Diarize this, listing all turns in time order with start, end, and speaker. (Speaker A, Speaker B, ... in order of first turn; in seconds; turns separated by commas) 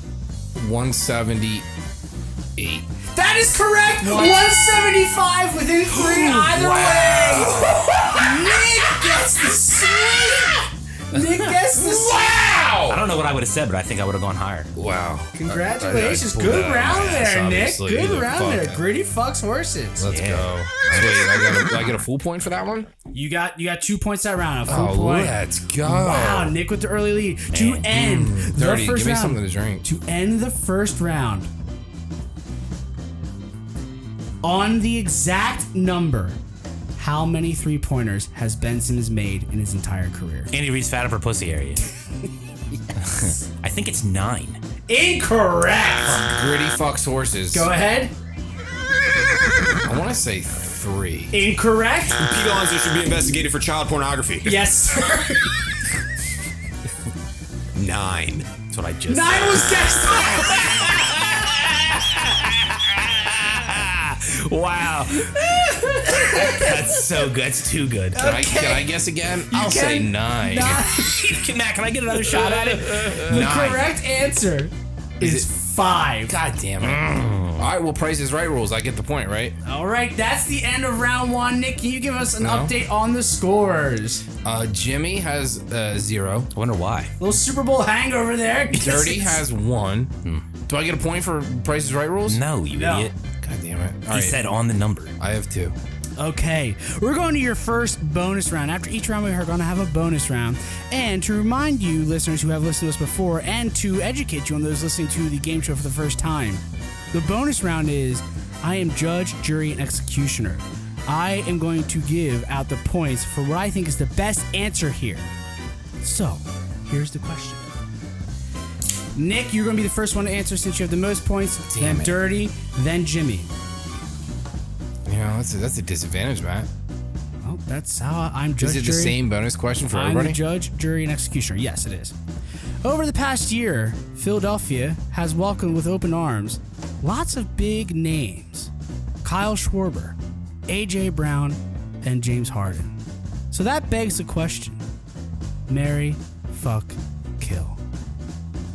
Speaker A: 0.6-1.7, Speaker A: 2.6-2.9, Speaker B: 3.1-7.6, Speaker C: 6.0-8.1, Speaker A: 7.1-8.0, Speaker B: 8.1-12.3, Speaker A: 10.0-10.5, Speaker A: 11.8-13.1, Speaker C: 12.9-14.7, Speaker A: 14.8-18.8, Speaker B: 15.4-20.1, Speaker A: 20.0-22.9, Speaker C: 20.1-21.9, Speaker B: 23.1-31.5, Speaker A: 24.7-26.6, Speaker C: 27.5-27.9, Speaker A: 27.9-29.8, Speaker B: 34.4-36.4, Speaker B: 37.0-40.5, Speaker C: 40.5-41.8, Speaker C: 43.0-44.6, Speaker B: 44.9-46.2, Speaker A: 46.0-47.7, Speaker B: 47.5-48.1, Speaker A: 49.8-51.4, Speaker B: 51.3-52.2, Speaker D: 52.2-54.5, Speaker B: 54.5-55.7, Speaker D: 57.8-58.5, Speaker C: 58.7-68.2, Speaker B: 59.1-60.9, Speaker B: 66.1-66.7, Speaker B: 68.1-68.9, Speaker A: 68.1-70.8, Speaker B: 69.5-71.3, Speaker C: 70.9-73.8, Speaker A: 73.0-73.9, Speaker B: 73.2-76.3, Speaker A: 75.2-75.5, Speaker A: 76.2-79.6, Speaker C: 76.8-77.7, Speaker B: 79.6-84.2, Speaker A: 82.4-82.7, Speaker A: 84.4-86.5, Speaker C: 86.5-87.1, Speaker B: 87.2-89.4, Speaker A: 88.7-90.1, Speaker A: 90.7-92.4, Speaker C: 92.2-93.1, Speaker B: 92.8-93.1, Speaker A: 93.4-94.5, Speaker C: 94.1-95.1, Speaker A: 95.2-95.8, Speaker B: 96.2-106.6, Speaker B: 107.1-115.3, Speaker B: 116.0-117.7, Speaker B: 119.2-123.5, Speaker A: 121.7-122.2, Speaker A: 125.1-126.7, Speaker B: 127.4-129.2, Speaker A: 128.6-130.4, Speaker B: 129.9-132.1, Speaker B: 132.8-138.7, Speaker B: 139.2-140.2, Speaker B: 140.7-143.0, Speaker B: 143.5-144.8, Speaker B: 145.7-147.8